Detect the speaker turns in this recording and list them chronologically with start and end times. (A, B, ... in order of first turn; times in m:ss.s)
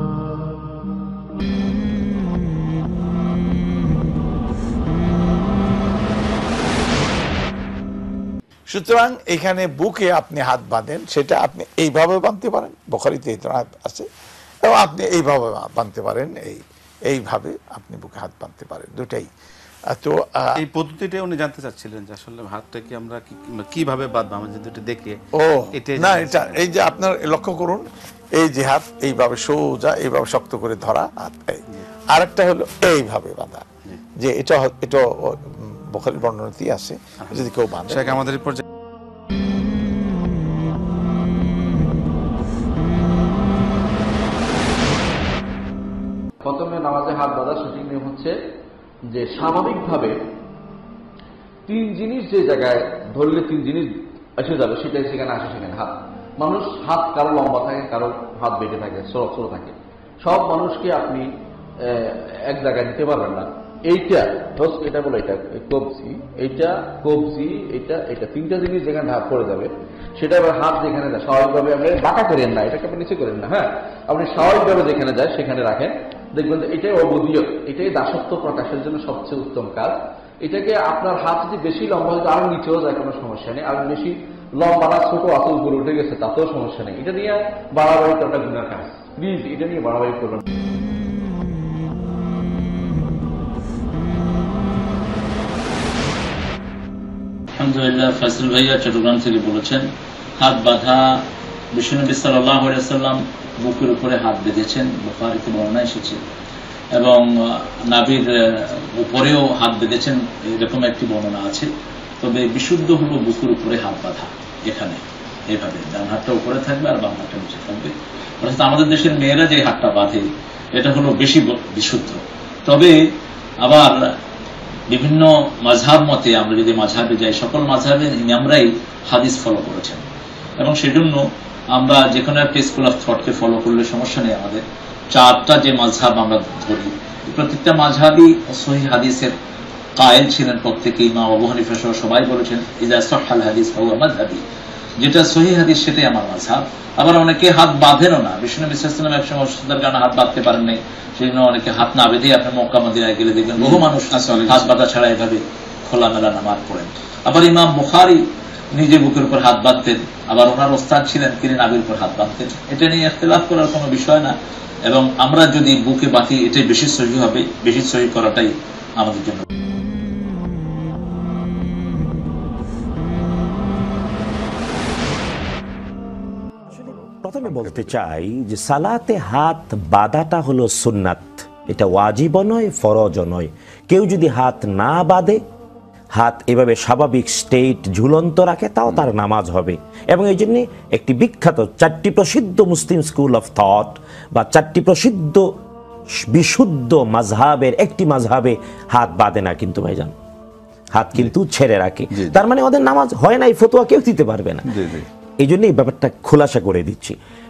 0:08.7-0:14.1 A
0:14.6-0:19.3 A
0:19.9-0:20.6 A
0:20.6-0:25.2 B
0:25.4-0:27.8 A
0:25.7-0:26.6 B
0:28.4-0:33.6 A
0:34.2-0:38.2 A
0:37.3-0:38.6 B
0:46.4-0:48.4 C
0:49.1-0:50.2 C
0:51.7-1:01.3 C
1:01.9-1:30.4 C
1:37.6-1:39.9 D
1:40.4-1:46.2 D
1:46.9-1:51.7 D
1:52.2-2:03.1 D
2:03.6-2:04.1 D
2:04.9-2:10.0 D
2:10.6-2:19.4 D
2:20.0-2:24.4 D
2:25.0-2:44.4 D
2:44.9-2:49.5 D
2:56.7-3:05.4 E
3:06.2-3:15.4 E
3:16.3-3:20.2 E
3:20.9-3:24.7 E
3:25.4-3:27.2 E